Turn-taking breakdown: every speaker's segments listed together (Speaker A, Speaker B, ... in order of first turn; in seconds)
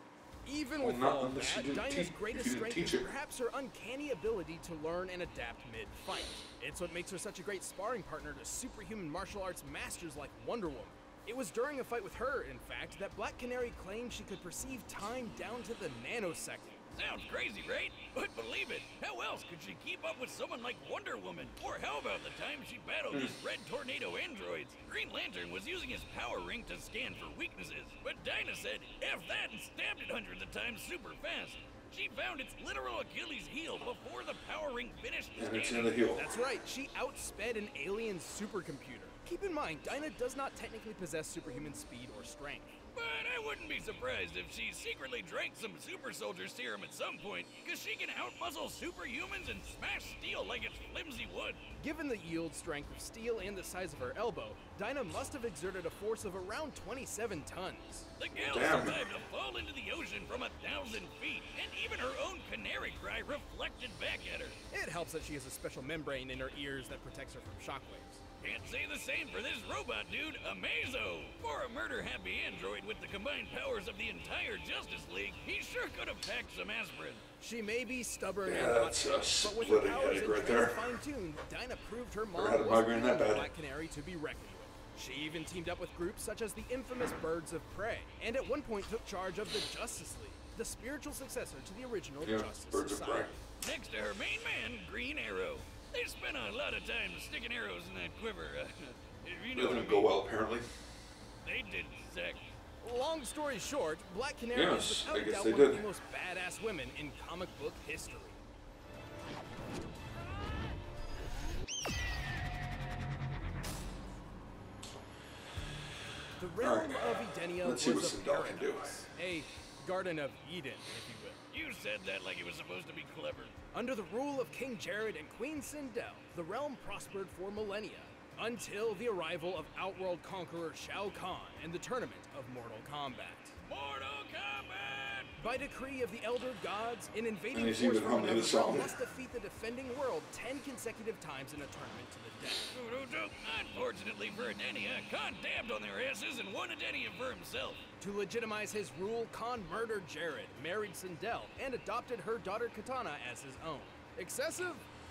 Speaker A: 0.4-16.8, 36.1-42.8, 51.8-58.1, 64.7-68.2, 77.4-93.4, 102.8-108.4, 116.4-121.4, 123.7-133.5, 135.4-142.7, 148.0-154.8
Speaker B: 0.8-3.1, 35.4-36.3, 58.3-59.0, 78.4-80.9, 82.3-83.5, 92.2-93.3, 99.5-100.7, 104.5-105.8, 116.6-119.0, 137.5-138.9
Speaker C: 16.9-36.1, 42.9-51.6, 58.2-64.6, 68.4-77.2, 93.6-100.2, 101.4-102.5, 121.5-123.5, 133.7-135.3, 142.7-147.8